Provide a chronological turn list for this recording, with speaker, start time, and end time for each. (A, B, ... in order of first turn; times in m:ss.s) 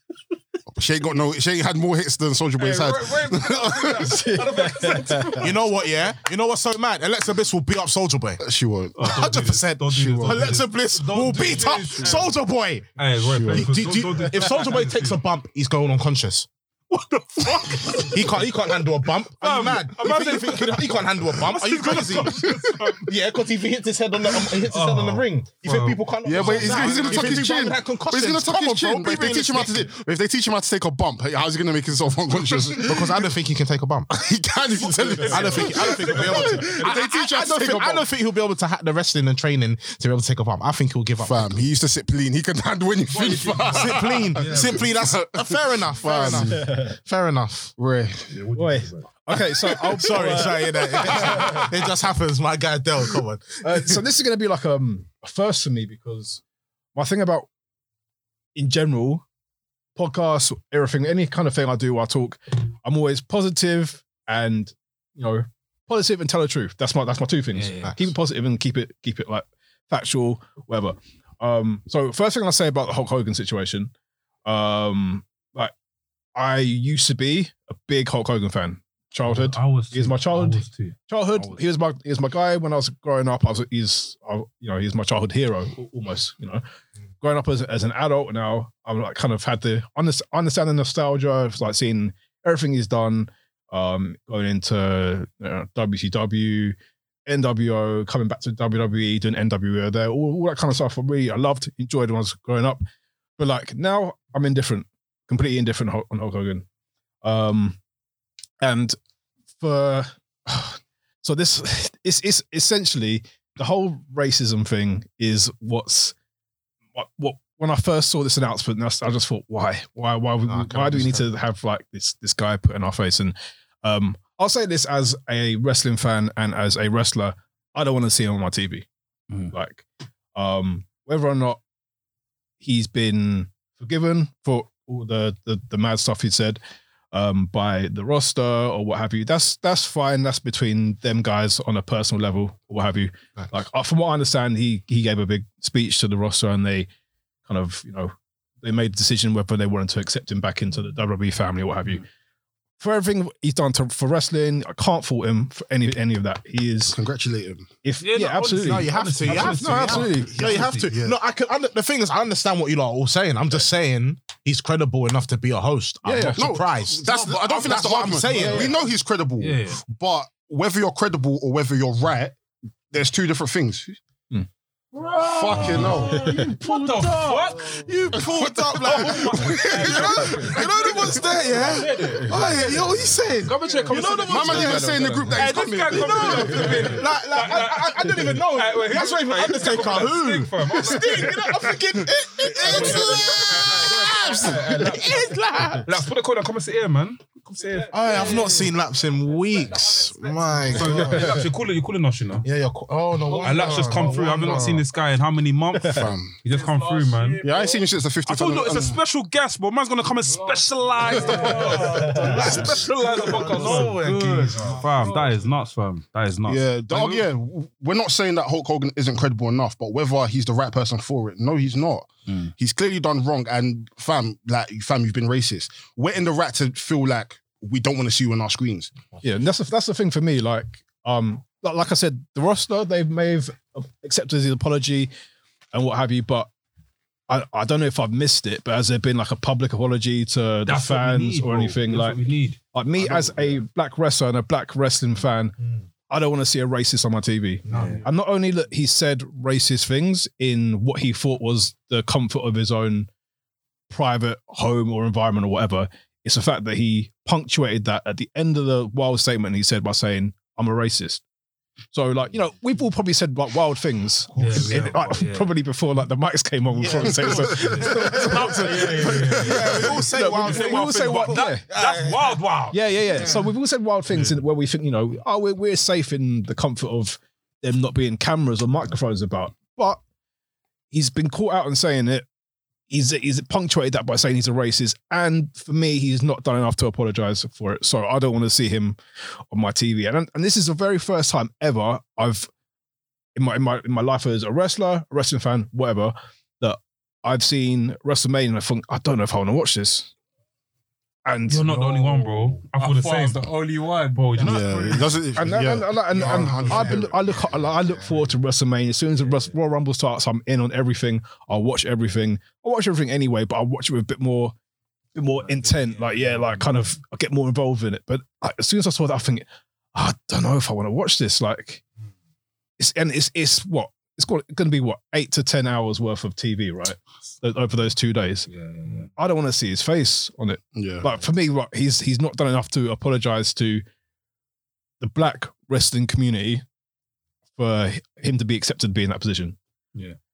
0:00.7-0:04.2 A
0:02.6-0:05.9 B
0:04.1-0:05.5 C
0:05.4-0:08.4 D
0:08.4-0:10.6 A
0:09.0-0:12.3 B
0:09.0-0:16.5 D
0:13.0-0:15.2 B
0:13.3-0:13.7 A
0:16.9-0:18.4 B
0:17.9-0:22.4 D
0:19.4-0:23.1 B
0:23.0-0:29.8 D
0:24.5-0:27.5 B
0:26.2-0:33.3 A
0:32.7-0:34.1 D
0:34.1-0:38.1 A
0:35.1-0:37.0 B
0:35.1-0:41.6 D
0:41.2-0:46.7 A
0:43.1-0:45.0 B
0:43.7-0:47.7 D
0:46.4-0:47.0 C
0:47.8-0:48.5 A
0:48.3-0:49.0 B
0:48.5-0:51.6 C
0:49.9-0:54.0 D
0:50.9-0:51.8 A
0:53.6-0:56.4 C
0:56.9-0:57.5 C
0:58.5-0:59.2 C
1:00.0-1:13.9 C
1:07.5-1:08.0 B
1:14.4-1:15.7 C
1:16.4-1:26.6 C
1:19.3-1:21.6 B
1:27.2-1:42.8 C
1:43.4-1:46.6 C
1:47.2-1:47.8 C
1:48.6-1:49.0 C
1:49.6-1:56.1 C
1:56.9-2:08.8 C
2:00.4-2:01.3 D
2:09.5-2:11.6 C
2:12.6-2:16.6 C
2:17.1-2:26.9 C
2:27.5-2:32.0 C
2:32.8-2:37.0 C
2:36.9-2:37.7 A
2:37.8-2:40.6 C
2:38.0-2:40.9 B
2:38.6-2:48.7 D
2:40.4-2:41.2 A
2:46.0-2:46.5 C
2:46.3-2:52.4 A
2:47.7-2:48.7 B
2:49.4-2:49.8 B
2:52.9-2:54.0 A
2:54.9-2:58.2 B
2:55.2-2:56.2 A
2:55.5-2:57.4 C
2:55.6-2:56.1 D
2:55.8-2:56.5 E
2:57.2-2:57.8 E
2:57.8-3:04.9 D
2:58.2-3:00.5 A
2:58.7-3:00.6 B
2:59.6-3:03.0 E
3:00.2-3:00.5 C
3:01.5-3:01.9 A
3:01.7-3:02.7 B
3:02.2-3:02.8 C
3:03.4-3:05.5 C
3:03.5-3:04.0 E
3:03.8-3:04.8 B
3:04.2-3:06.8 A
3:05.3-3:18.6 B
3:05.9-3:15.9 D
3:06.2-3:06.9 C
3:12.7-3:13.0 C
3:12.8-3:13.8 E
3:14.4-3:15.0 C
3:17.8-3:18.8 E
3:17.9-3:21.4 D
3:19.4-3:21.3 E
3:20.7-3:22.4 B
3:22.4-3:24.8 D
3:23.2-3:24.8 E
3:23.4-3:27.4 B
3:25.8-3:26.3 A
3:26.4-3:27.9 E
3:27.4-3:29.0 A
3:28.2-3:37.2 B
3:30.3-3:35.5 E
3:31.1-3:34.9 D
3:32.1-3:32.5 C
3:36.5-3:48.9 A
3:49.2-3:55.1 C
3:55.7-3:56.5 C
3:57.3-4:02.2 C
4:00.6-4:03.6 B
4:02.7-4:05.6 C
4:06.1-4:13.1 C
4:07.6-4:08.0 D
4:07.6-4:08.0 B
4:07.7-4:08.0 E
4:13.9-4:21.2 C
4:21.9-4:31.6 C
4:24.4-4:25.5 B
4:24.4-4:24.7 D
4:26.8-4:32.4 D
4:26.9-4:30.0 A
4:27.4-4:33.4 B
4:32.7-4:40.0 C
4:33.1-4:33.4 E
4:34.1-4:34.4 B
4:40.9-4:42.3 C
4:42.9-4:49.0 C
4:49.5-4:52.5 C
4:53.4-5:00.1 C
5:01.2-5:01.7 C
5:01.5-5:03.5 B
5:01.6-5:05.0 E
5:04.1-5:05.2 B
5:04.4-5:07.3 A
5:05.3-5:14.5 C
5:06.1-5:08.3 D
5:15.1-5:21.8 C
5:15.4-5:16.7 B
5:22.8-5:28.5 C
5:28.5-5:29.1 B
5:29.2-5:33.8 C
5:30.7-5:31.1 A
5:35.0-5:36.6 C
5:37.6-5:39.6 C